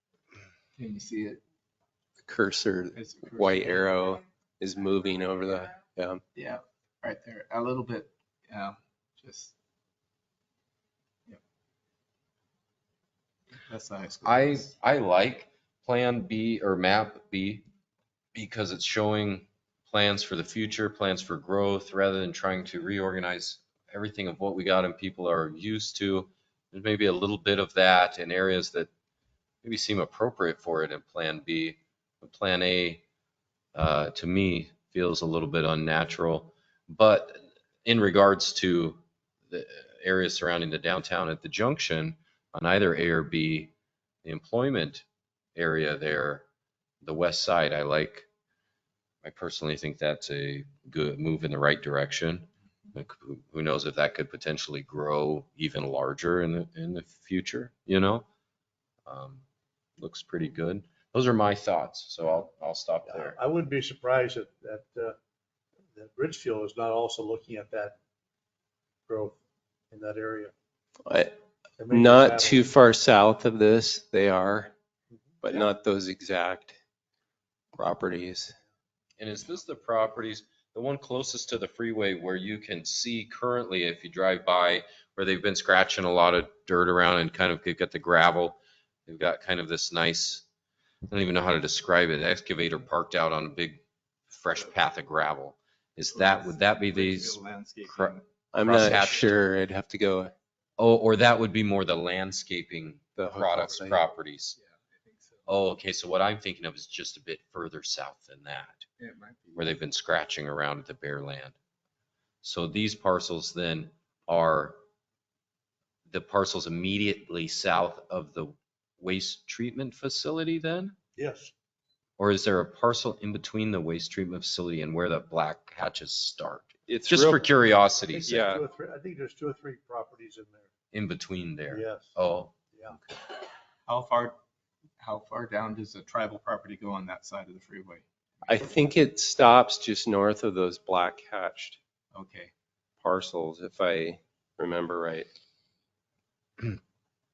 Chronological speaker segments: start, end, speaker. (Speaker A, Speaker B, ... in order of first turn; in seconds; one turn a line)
Speaker A: 0.8-1.4
Speaker B: 2.2-6.2
Speaker A: 2.9-3.9
Speaker A: 6.3-9.5
Speaker A: 13.7-14.7
Speaker C: 14.2-17.7
Speaker C: 18.3-28.9
Speaker C: 29.6-33.0
Speaker C: 33.8-43.7
Speaker C: 44.2-46.5
Speaker C: 47.0-48.3
Speaker C: 49.2-58.3
Speaker C: 59.1-59.4
Speaker C: 60.0-63.4
Speaker D: 63.1-65.2
Speaker D: 66.0-68.0
Speaker D: 69.1-69.4
Speaker D: 69.9-70.5
Speaker B: 71.1-71.4
Speaker D: 71.8-72.6
Speaker B: 71.9-74.7
Speaker B: 75.4-76.8
Speaker B: 77.8-78.5
Speaker C: 79.2-90.5
Speaker C: 91.1-99.5
Speaker A: 96.1-98.3
Speaker B: 98.5-100.3
Speaker C: 100.8-104.6
Speaker B: 103.2-104.0
Speaker A: 104.6-105.5
Speaker C: 105.5-108.8
Speaker A: 109.0-109.8
Speaker C: 109.6-111.6
Speaker C: 112.4-114.8
Speaker C: 116.1-121.0
Speaker D: 121.2-121.5
Speaker C: 122.2-128.5
Speaker B: 126.9-127.5
Speaker D: 128.1-130.7
Speaker B: 128.3-128.6
Speaker C: 130.9-133.1
Speaker D: 131.7-132.2
Speaker A: 133.9-134.4
Speaker A: 135.0-138.1
Speaker B: 138.5-141.8
Speaker A: 142.1-142.5
Speaker B: 143.0-145.3